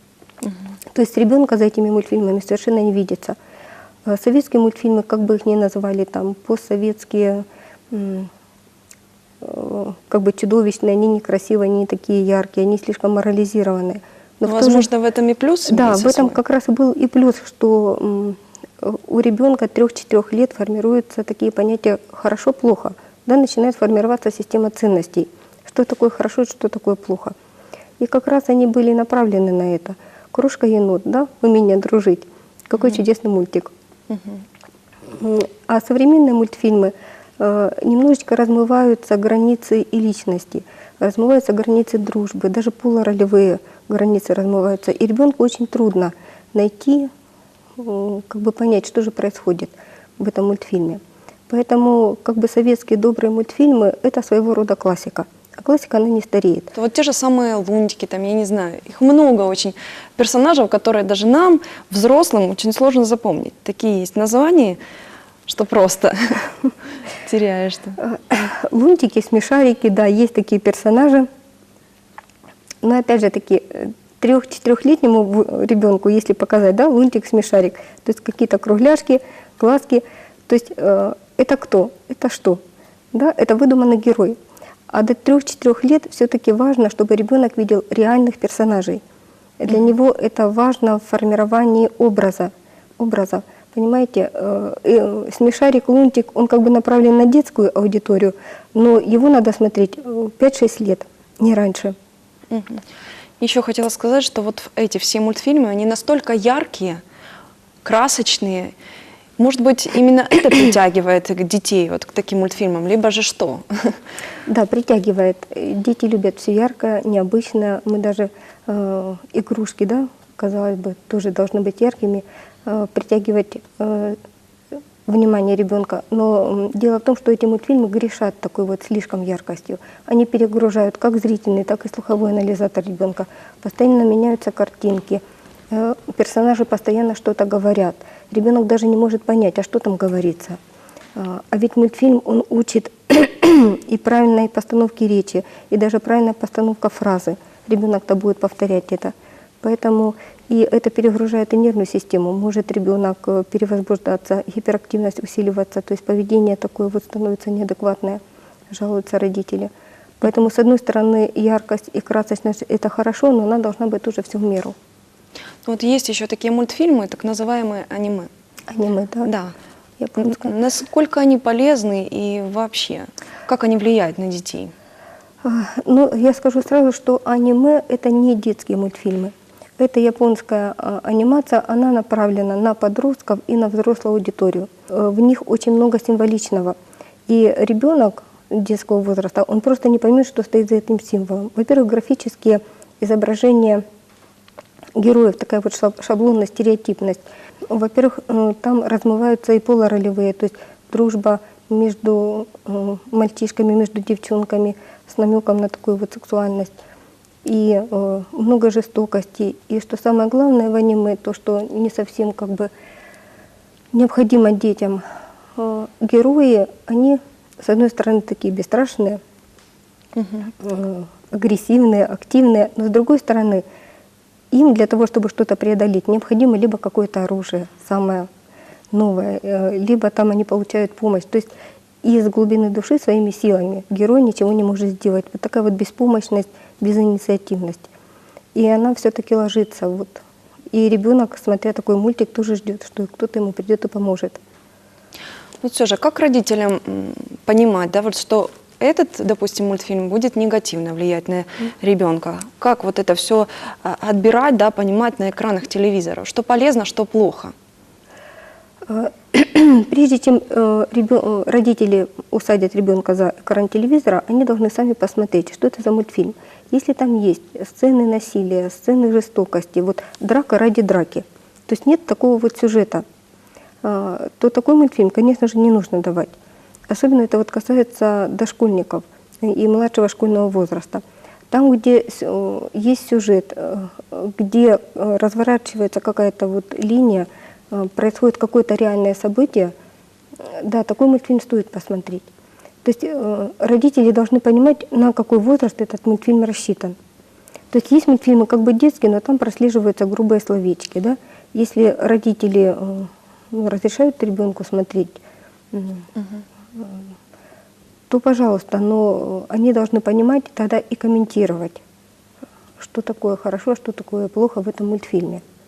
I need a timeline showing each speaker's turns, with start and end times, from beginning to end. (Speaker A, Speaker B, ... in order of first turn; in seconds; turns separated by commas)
Speaker A: 0.9-3.4, Speaker A: 4.1-8.3, Speaker A: 9.4-14.9, Speaker B: 14.4-16.4, Speaker A: 15.7-27.4, Speaker A: 28.0-33.7, Speaker B: 34.1-34.4, Speaker A: 35.1-47.1, Speaker A: 47.8-56.7, Speaker B: 56.7-64.8, Speaker B: 65.5-66.5, Speaker B: 67.2-68.0, Speaker A: 68.0-71.3, Speaker A: 72.8-82.6, Speaker A: 83.1-84.4, Speaker A: 84.9-89.0, Speaker A: 89.6-102.0, Speaker B: 102.5-102.8, Speaker B: 103.4-107.0, Speaker B: 107.8-108.7, Speaker B: 109.4-114.0, Speaker A: 114.5-124.2, Speaker A: 125.1-140.6, Speaker A: 141.2-164.8, Speaker B: 165.7-168.3, Speaker A: 168.7-169.3, Speaker B: 169.3-169.5, Speaker A: 170.0-170.5, Speaker B: 170.2-174.7, Speaker A: 175.4-193.8, Speaker A: 195.0-206.7, Speaker A: 207.4-212.7, Speaker A: 213.9-215.0, Speaker A: 215.6-219.2, Speaker B: 220.2-220.5, Speaker A: 220.6-223.6, Speaker A: 224.5-228.3, Speaker A: 228.9-231.5, Speaker A: 232.0-237.9, Speaker A: 238.6-244.4, Speaker B: 245.6-257.5, Speaker A: 258.9-273.1, Speaker A: 273.8-276.3, Speaker A: 276.9-289.7, Speaker A: 290.4-292.3, Speaker A: 292.8-297.0, Speaker A: 297.7-305.2, Speaker A: 305.7-306.1, Speaker A: 306.7-307.1, Speaker A: 308.1-311.8, Speaker A: 312.8-315.4